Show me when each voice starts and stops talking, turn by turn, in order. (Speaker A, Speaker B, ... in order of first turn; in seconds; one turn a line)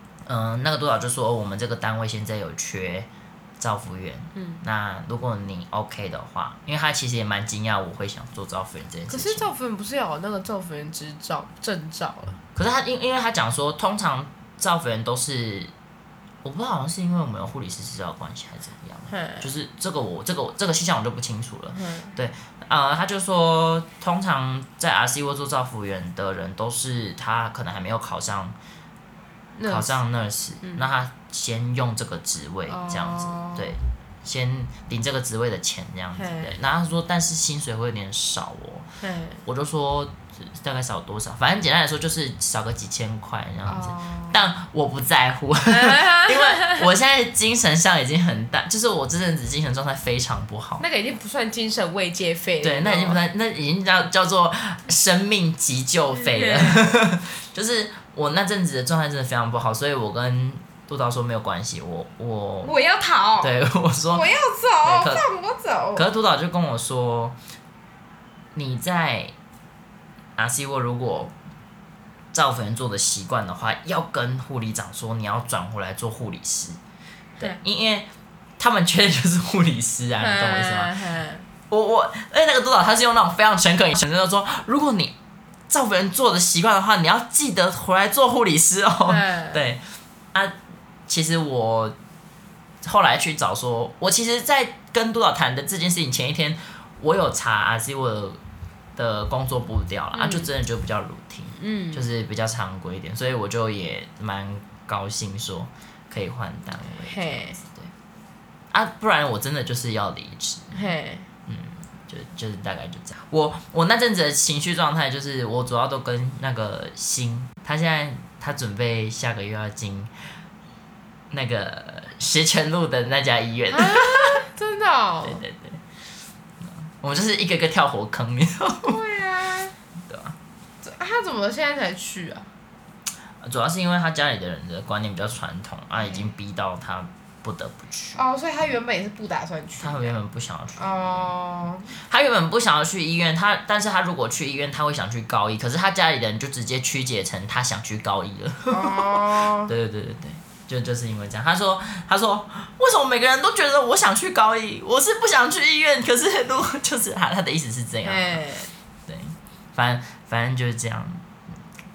Speaker A: 0.2-3.1
Speaker A: 3.6-9.5
Speaker B: 4.3-4.6
Speaker B: 9.1-12.4
Speaker A: 12.5-15.7
Speaker A: 16.4-28.6
Speaker B: 19.1-19.5
Speaker B: 21.7-22.1
Speaker B: 29.6-30.0
Speaker A: 29.6-38.9
Speaker B: 30.6-30.9
Speaker B: 32.6-33.8
Speaker B: 36.1-36.5
Speaker B: 39.0-39.4
Speaker A: 39.4-50.8
Speaker B: 43.6-44.4
Speaker B: 45.7-46.8
Speaker B: 50.8-53.2
Speaker A: 52.6-62.7
Speaker B: 56.2-56.8
Speaker B: 62.6-63.5
Speaker A: 63.4-64.3
Speaker B: 64.1-66.0
Speaker A: 64.8-65.2
Speaker A: 65.9-67.3
Speaker A: 68.5-69.3
Speaker A: 70.4-71.3
Speaker A: 72.3-76.8
Speaker A: 77.4-78.1
Speaker A: 78.6-81.1
Speaker B: 80.2-81.5
Speaker A: 81.7-85.1
Speaker A: 85.7-90.6
Speaker B: 89.0-89.6
Speaker A: 91.1-91.9
Speaker A: 92.8-98.4
Speaker A: 99.0-107.9
Speaker B: 100.1-100.5
Speaker B: 101.6-102.0
Speaker B: 107.0-107.6
Speaker A: 108.7-110.8
Speaker B: 110.7-111.3
Speaker A: 111.5-120.2
Speaker A: 121.3-124.5
Speaker B: 123.7-125.5
Speaker A: 125.2-125.8
Speaker A: 126.6-128.9
Speaker B: 128.8-129.7
Speaker A: 130.0-130.3
Speaker B: 130.8-132.5
Speaker A: 133.4-138.2
Speaker B: 138.1-140.2
Speaker A: 139.8-141.3
Speaker B: 140.8-141.9
Speaker A: 141.9-158.4
Speaker B: 148.7-149.7
Speaker B: 158.0-158.7
Speaker A: 159.1-161.3